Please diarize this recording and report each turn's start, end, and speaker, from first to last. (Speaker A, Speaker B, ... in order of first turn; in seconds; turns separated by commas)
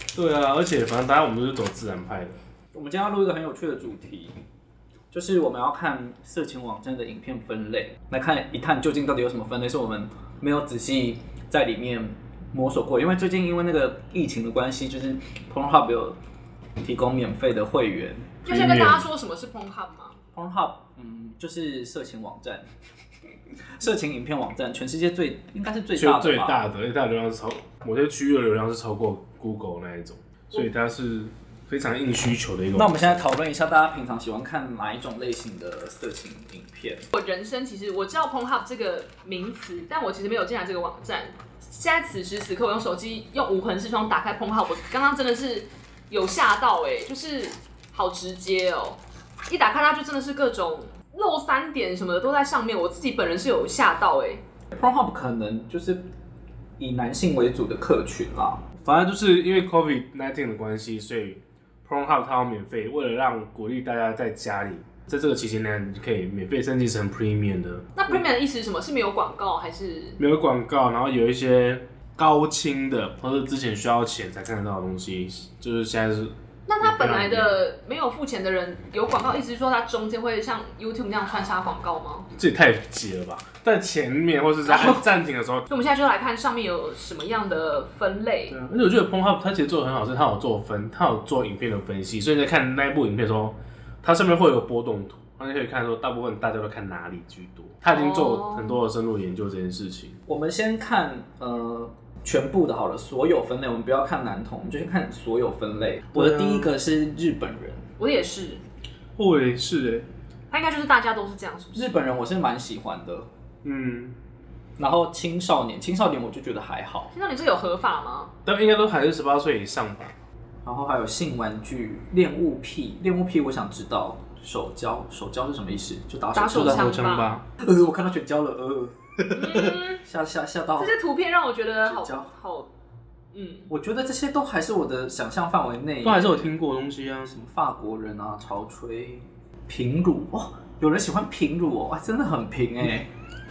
Speaker A: 0.1-2.4, Speaker B: 2.7-4.3, Speaker B: 5.1-16.2, Speaker B: 16.8-18.4, Speaker C: 18.4-20.2, Speaker A: 18.5-19.1, Speaker B: 20.3-22.7, Speaker B: 23.8-26.6, Speaker A: 26.0-33.2, Speaker B: 32.8-37.1, Speaker C: 37.1-54.4, Speaker B: 54.7-56.0, Speaker B: 56.8-58.6, Speaker A: 58.8-67.8, Speaker C: 68.0-70.2, Speaker A: 70.2-77.5, Speaker C: 76.7-82.3, Speaker A: 82.3-85.7, Speaker C: 84.7-85.0, Speaker C: 85.7-88.6, Speaker A: 88.5-100.2, Speaker C: 97.9-98.8, Speaker B: 100.3-107.9, Speaker A: 106.1-106.7, Speaker C: 108.0-108.6, Speaker A: 109.2-110.1, Speaker C: 110.5-112.0, Speaker B: 111.7-113.3, Speaker A: 113.6-114.2, Speaker B: 114.8-117.1, Speaker C: 117.1-118.3, Speaker A: 118.5-120.2, Speaker B: 120.6-127.0, Speaker C: 126.3-127.4, Speaker A: 126.5-127.5, Speaker B: 127.6-131.0, Speaker C: 129.3-130.0, Speaker C: 130.8-132.7, Speaker B: 131.8-132.3, Speaker C: 133.3-133.7, Speaker B: 133.7-136.5, Speaker A: 136.0-137.3, Speaker B: 137.2-143.1